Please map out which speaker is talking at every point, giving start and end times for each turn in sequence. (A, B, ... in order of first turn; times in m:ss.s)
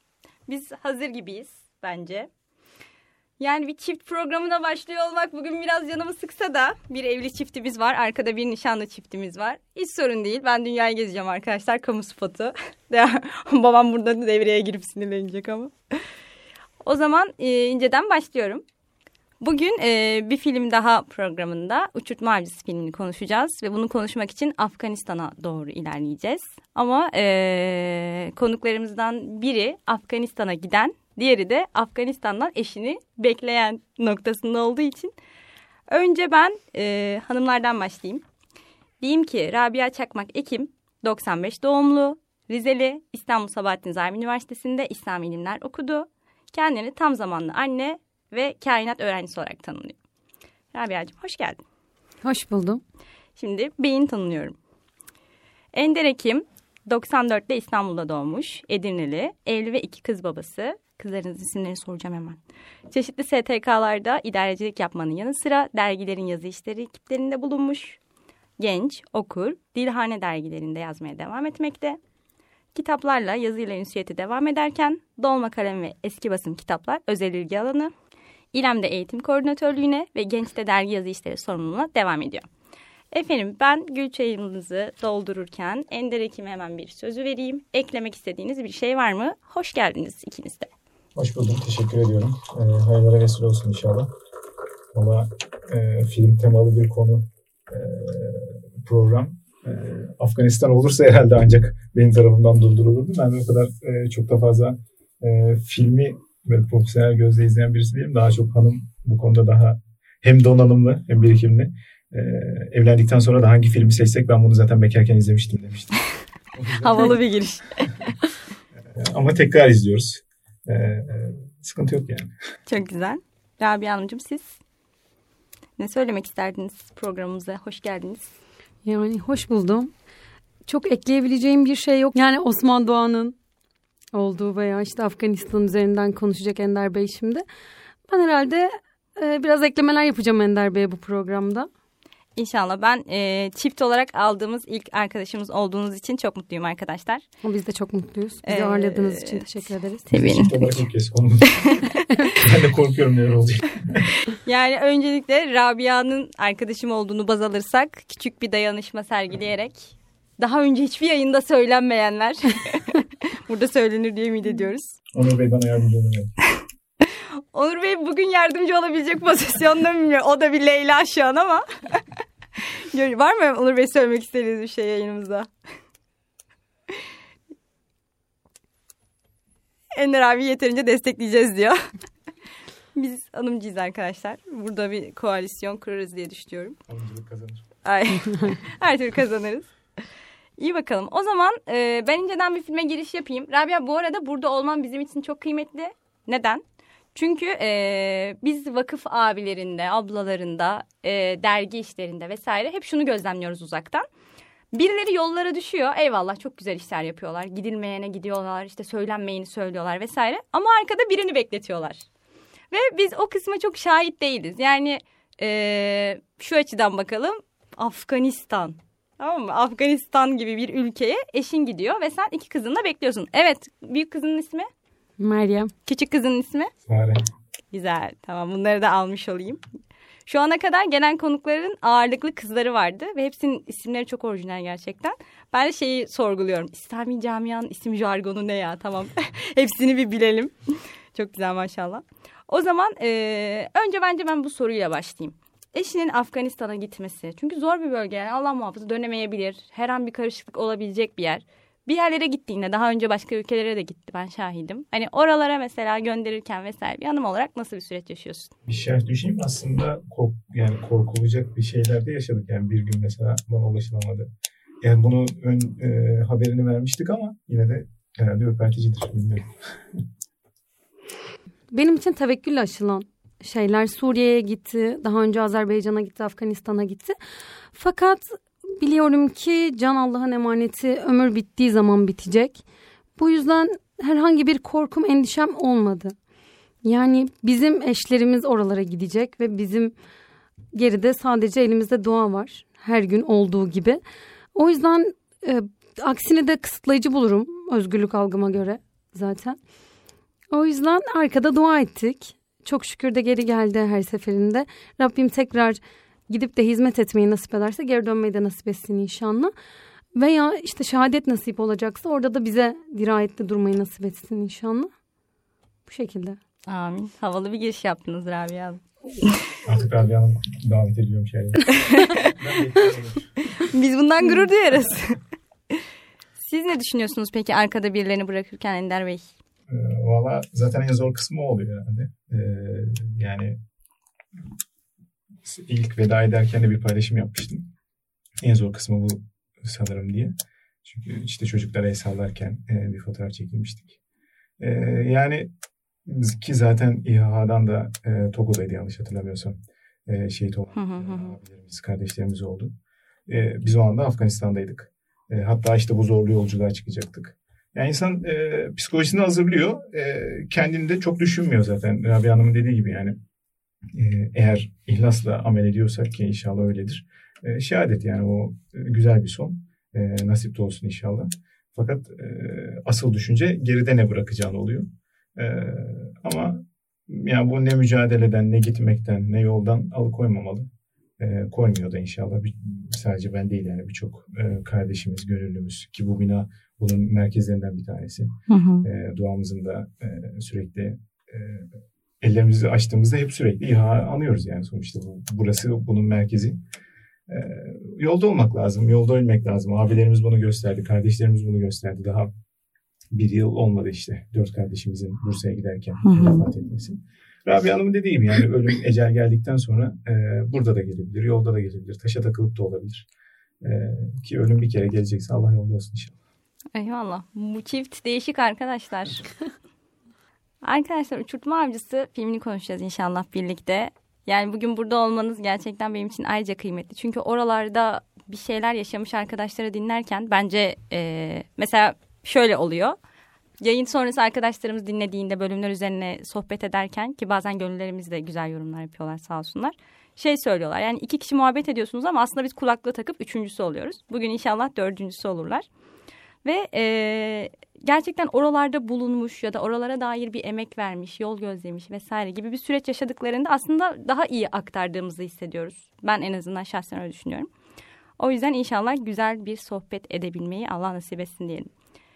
0:00.5-0:02.3 A
0:03.4-0:15.7 A
0:16.8-0:18.6 A
0:19.4-0:35.1 A
0:35.9-0:38.2 A
0:39.0-0:50.0 A
0:50.7-0:51.6 A
0:52.2-0:52.8 B
0:53.4-0:54.6 A
0:55.7-1:02.4 A
1:02.9-1:08.0 A
1:08.6-1:12.0 A
1:12.8-1:17.9 A
1:18.5-1:22.5 A
1:23.1-1:30.7 A
1:31.2-1:34.1 C
1:34.9-1:56.0 C
1:56.5-1:57.2 C
1:56.8-1:58.2 A
1:58.9-2:02.3 C
2:02.7-2:04.5 A
2:05.8-2:08.3 A
2:08.8-2:09.9 B
2:10.7-2:13.4 B
2:14.1-2:17.4 B
2:18.1-2:21.7 B
2:22.4-2:27.2 A
2:27.4-2:30.1 B
2:28.4-2:30.6 A
2:30.1-2:31.8 C
2:31.5-2:32.0 A
2:32.4-2:34.1 C
2:34.2-2:45.0 A
2:45.1-2:46.3 C
2:47.0-2:52.0 A
2:52.6-2:55.5 A
2:59.9-3:01.8 A
3:02.9-3:06.8 A
3:06.9-3:07.7 C
3:07.8-3:09.7 A
3:10.6-3:16.6 A
3:17.1-3:24.0 A
3:24.7-3:32.0 A
3:32.7-3:44.7 A
3:45.2-3:45.7 B
3:45.8-3:46.7 A
3:46.9-3:47.2 C
3:47.7-3:49.6 A
3:50.3-4:18.5 A
4:18.7-4:24.3 C
4:24.8-4:30.0 C
4:31.7-4:37.2 B
4:37.7-4:42.6 B
4:43.2-4:46.2 B
4:46.8-4:49.9 B
4:50.7-4:54.0 B
4:54.6-4:59.6 B
5:00.5-5:09.5 B
5:10.2-5:14.9 B
5:15.9-5:16.4 B
5:16.7-5:19.4 A
5:19.6-5:23.3 C
5:21.7-5:22.4 A
5:23.5-5:25.2 A
5:26.4-5:29.3 A
5:29.7-5:33.6 C
5:35.4-5:37.7 C
5:38.4-5:40.3 C
5:40.8-5:43.9 C
5:44.6-5:45.5 C
5:46.0-5:52.7 C
5:50.7-5:51.4 A
5:53.3-6:03.1 C
6:03.9-6:20.7 C
6:21.2-6:31.7 C
6:28.5-6:28.9 A
6:32.2-6:36.6 C
6:37.3-6:42.3 C
6:43.1-6:53.1 C
6:46.0-6:46.4 A
6:53.6-6:56.2 C
6:56.8-6:59.3 A
7:00.6-7:13.0 A
7:13.6-7:25.7 A
7:26.4-7:37.5 A
7:38.2-7:41.7 A